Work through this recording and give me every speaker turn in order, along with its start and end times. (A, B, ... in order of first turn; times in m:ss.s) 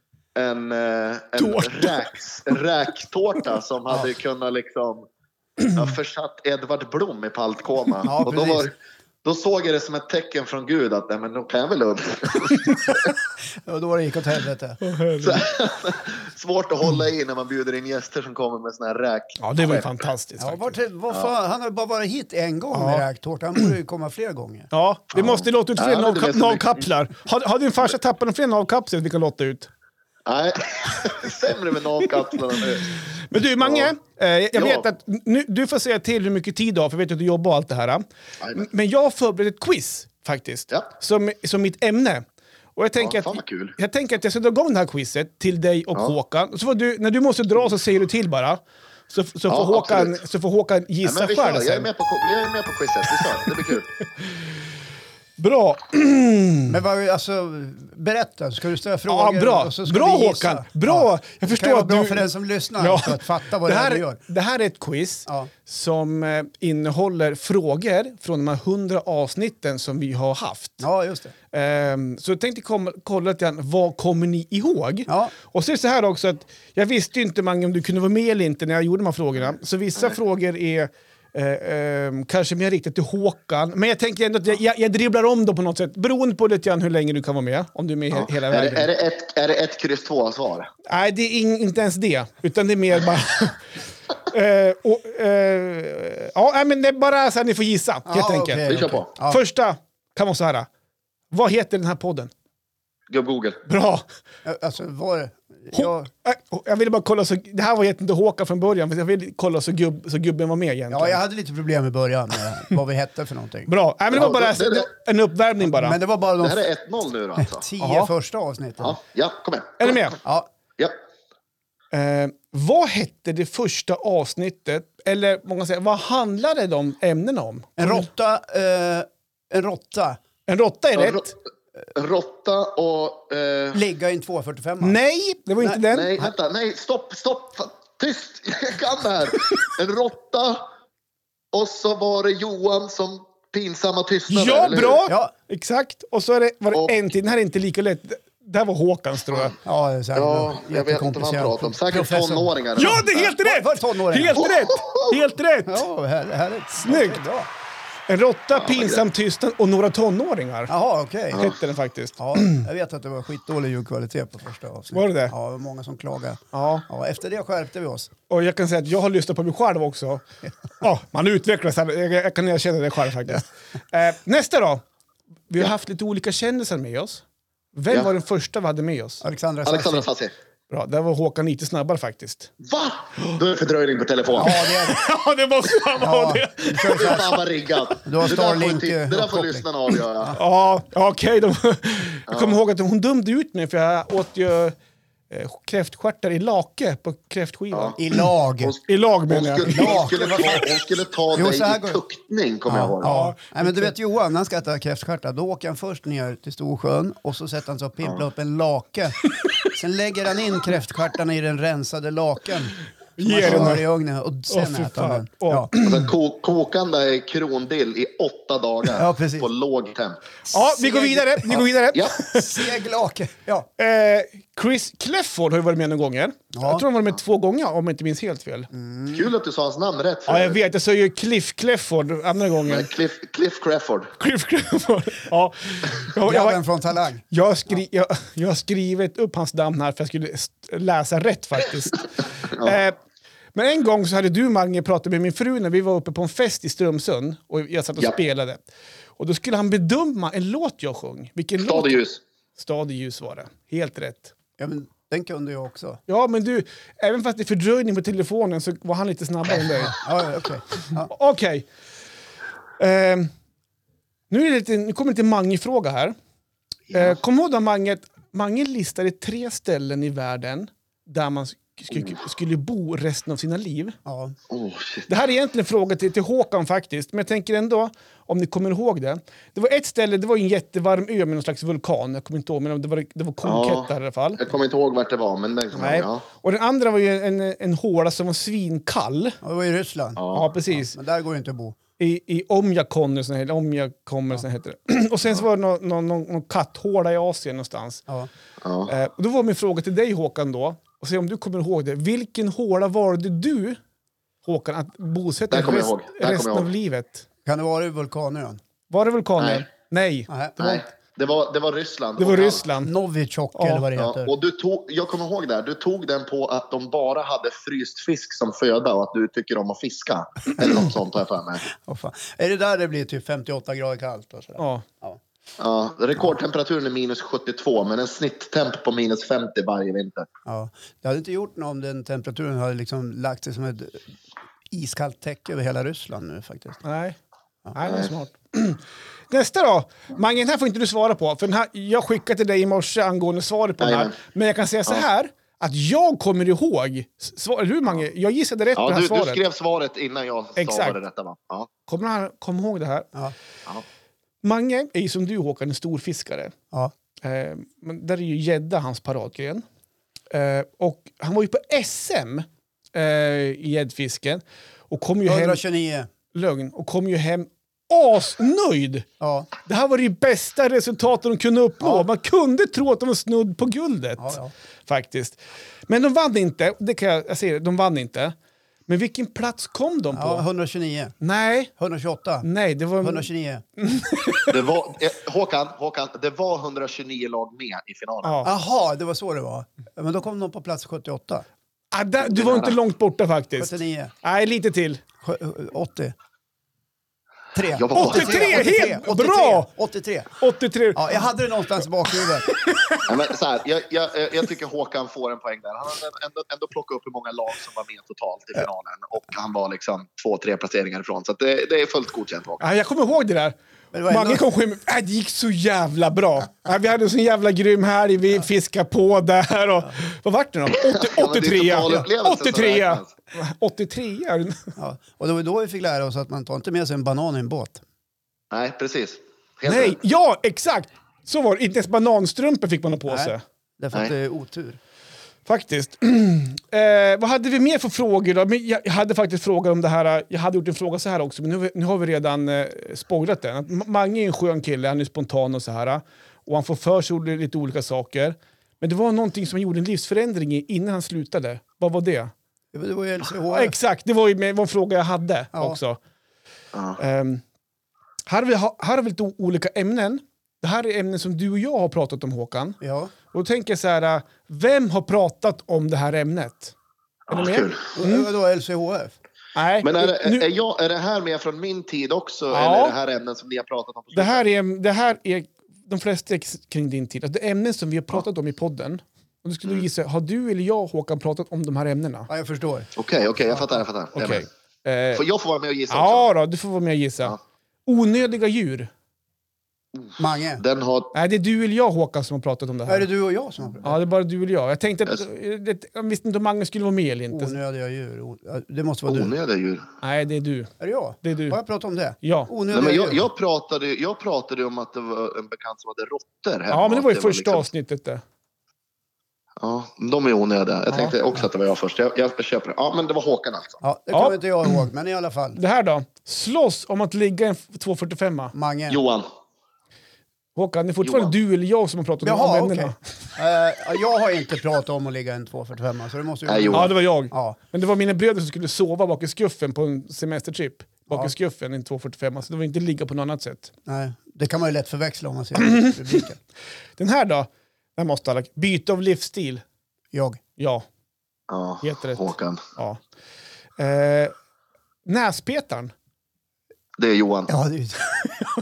0:00.3-0:05.0 A
0:01.4-0:02.2 B
0:05.7-0:08.7 A
0:08.0-0:08.7 C
0:09.2-0:13.1 A
0:13.6-0:14.8 C
0:14.8-0:15.5 B
0:15.2-0:19.9 A
0:19.4-0:20.8 B
0:20.4-0:24.7 C
0:22.7-0:23.0 B
0:24.7-0:29.7 B
0:25.2-0:26.8 A
0:30.2-0:33.0 A
0:32.9-0:42.2 B
0:33.6-0:33.9 A
0:34.5-0:34.8 A
0:38.4-0:38.7 A
0:42.8-0:51.9 B
0:43.0-0:43.8 A
0:49.5-0:50.2 A
0:51.0-0:54.0 A
0:53.1-0:54.5 B
0:55.4-0:56.8 B
0:56.7-1:04.2 C
0:59.1-1:02.3 B
1:02.8-1:10.8 B
1:05.2-1:05.5 C
1:10.8-1:11.3 C
1:11.5-1:28.9 B
1:15.1-1:15.3 C
1:28.1-1:30.7 A
1:30.8-1:33.6 B
1:34.2-1:40.7 B
1:38.1-1:39.4 C
1:38.6-1:39.1 A
1:41.3-1:42.3 B
1:43.1-1:43.6 A
1:43.7-1:44.0 B
1:44.4-1:46.1 C
1:45.7-1:51.2 B
1:50.9-1:53.7 C
1:53.7-1:56.0 B
1:54.1-1:54.9 A
1:55.6-1:56.6 C
1:56.4-1:57.6 A
1:57.4-1:59.0 C
1:57.8-1:58.1 B
1:58.8-2:00.2 A
1:59.8-2:00.2 B
2:00.2-2:00.5 C
2:01.9-2:08.1 B
2:07.8-2:10.2 C
2:10.5-2:11.3 B
2:11.0-2:11.3 A
2:11.9-2:13.8 A
2:13.7-2:15.0 C
2:14.8-2:16.2 B
2:15.9-2:20.6 A
2:21.5-2:25.0 A
2:24.3-2:29.6 B
2:25.1-2:25.3 C
2:29.6-2:34.5 C
2:30.1-2:33.1 A
2:32.8-2:35.8 B
2:34.4-2:35.2 A
2:35.6-2:37.5 C
2:36.8-2:37.2 B
2:38.1-2:40.7 B
2:38.5-2:39.0 A
2:40.7-2:41.5 C
2:41.3-2:42.6 B
2:42.2-2:48.1 C
2:44.9-2:45.3 B
2:46.5-2:46.8 B
2:48.3-2:50.2 B
2:50.8-2:54.8 B
2:55.5-2:59.2 B
2:59.2-3:00.1 C
2:59.6-3:00.3 A
3:00.7-3:02.5 B
3:02.6-3:04.6 A
3:04.4-3:05.0 C
3:04.4-3:07.4 B
3:06.0-3:07.4 C
3:07.0-3:10.4 A
3:08.0-3:09.7 C
3:10.4-3:14.7 B
3:12.3-3:12.6 A
3:15.3-3:18.2 B
3:17.7-3:18.0 A
3:18.0-3:18.7 C
3:18.6-3:23.1 A
3:18.9-3:20.1 B
3:19.7-3:20.7 C
3:21.3-3:22.0 C
3:22.7-3:35.7 C
3:23.0-3:23.9 B
3:33.2-3:33.8 B
3:34.5-3:36.1 B
3:35.8-3:40.2 A
3:39.0-3:39.5 C
3:40.5-3:42.7 B
3:40.5-3:41.6 C
3:41.9-3:42.2 A
3:42.3-3:43.7 C
3:43.8-3:48.7 B
3:46.5-3:46.8 C
3:48.7-3:49.3 C
3:49.1-3:50.6 A
3:50.3-3:52.9 B
3:52.7-3:54.1 A
3:54.2-3:56.6 B
3:56.2-3:57.2 C
3:57.2-4:03.0 B
4:02.5-4:02.8 A
4:03.5-4:08.6 B
4:09.2-4:12.0 B
4:11.6-4:12.2 A
4:12.6-4:14.3 B
4:14.6-4:16.0 C
4:16.1-4:20.0 B
4:19.7-4:21.1 C
4:21.0-4:21.7 B
4:22.8-4:23.3 B
4:24.3-4:26.1 B
4:26.9-4:34.0 B
4:34.0-4:34.3 C
4:34.5-4:35.1 A
4:35.1-4:44.4 B
4:43.4-4:46.2 A
4:45.7-4:49.4 B
4:49.4-4:51.8 C
4:50.2-4:50.5 A
4:50.3-4:51.0 B
4:52.0-4:58.0 B
4:58.6-4:58.9 A
4:58.9-5:03.8 B
5:04.4-5:07.2 B
5:05.5-5:06.7 A
5:07.4-5:08.6 C
5:08.9-5:10.3 B
5:09.4-5:09.6 A
5:10.3-5:10.8 C
5:10.6-5:12.6 A
5:12.2-5:12.9 B
5:12.8-5:14.3 C
5:13.5-5:13.9 B
5:14.0-5:21.6 A
5:21.7-5:25.2 C
5:24.6-5:24.8 B
5:25.6-5:30.3 A
5:30.4-5:34.1 C
5:34.7-5:36.8 C
5:36.8-5:37.2 B
5:37.7-5:49.4 B
5:37.8-5:38.1 A
5:43.8-5:44.1 A
5:48.8-5:51.7 A
5:50.6-5:51.0 B
5:51.9-5:53.1 B
5:54.4-5:56.5 B
5:57.2-5:59.6 B
6:00.3-6:05.6 B
6:05.2-6:06.1 C
6:06.3-6:09.0 B
6:09.2-6:09.5 C
6:09.6-6:18.3 B
6:11.8-6:12.0 C
6:14.2-6:14.5 C
6:18.9-6:20.4 B
6:20.1-6:21.1 C
6:21.2-6:21.7 B
6:21.8-6:22.5 C
6:22.4-6:24.6 B
6:23.0-6:23.6 C
6:24.5-6:28.4 A
6:28.2-6:28.5 B
6:28.4-6:31.4 C
6:31.9-6:35.0 B
6:32.2-6:32.8 A
6:33.6-6:34.1 C
6:35.2-6:36.1 C
6:37.5-6:40.3 C
6:37.7-6:38.6 A
6:37.9-6:39.7 B
6:40.4-6:41.3 B
6:40.9-6:42.5 C
6:42.4-6:43.0 B
6:43.0-6:52.6 A
6:52.6-6:53.6 B
6:53.9-6:54.4 C
6:54.1-7:04.7 B
7:00.8-7:03.1 A
7:04.8-7:07.8 C
7:08.5-7:10.0 A
7:09.6-7:13.4 B
7:13.1-7:14.8 C
7:15.4-7:32.3 B
7:32.7-7:33.8 C
7:33.5-7:36.0 B
7:36.7-7:37.0 A
7:37.0-7:37.4 B
7:38.2-7:42.8 B
7:42.8-7:43.1 C
7:43.3-7:46.7 B
7:47.3-7:47.8 A
7:47.3-7:48.3 B
7:48.0-7:49.2 C
7:49.5-7:50.4 B
7:49.8-7:54.4 A
7:52.5-7:52.9 B
7:54.1-8:02.3 B
8:02.3-8:02.9 C
8:03.0-8:04.5 A
8:04.2-8:05.2 B
8:05.1-8:06.3 A
8:05.9-8:08.9 B
8:10.0-8:11.1 A
8:10.2-8:10.6 C
8:11.1-8:13.1 B
8:12.9-8:14.0 C
8:13.8-8:17.5 B
8:17.3-8:19.3 C
8:19.1-8:19.8 A
8:20.0-8:20.7 B
8:20.8-8:23.2 C
8:21.2-8:21.6 B
8:22.2-8:22.5 B
8:22.7-8:27.7 A
8:26.7-8:28.2 B
8:29.6-8:33.8 A
8:30.9-8:31.2 B
8:33.8-8:35.6 C
8:34.1-8:34.4 B
8:35.5-8:38.5 B
8:38.5-8:39.0 C
8:38.9-8:39.2 A
8:40.6-8:43.0 B
8:41.0-8:41.3 A
8:42.2-8:47.6 C
8:46.5-8:46.9 A
8:46.7-8:53.7 B
8:53.8-8:56.4 C
8:55.6-8:56.2 B
8:57.0-8:59.6 B
9:00.1-9:00.4 C
9:00.6-9:00.8 B
9:01.5-9:02.6 A
9:01.8-9:03.0 B
9:03.8-9:04.3 B
9:05.0-9:05.9 B
9:07.0-9:07.5 A
9:07.5-9:08.1 C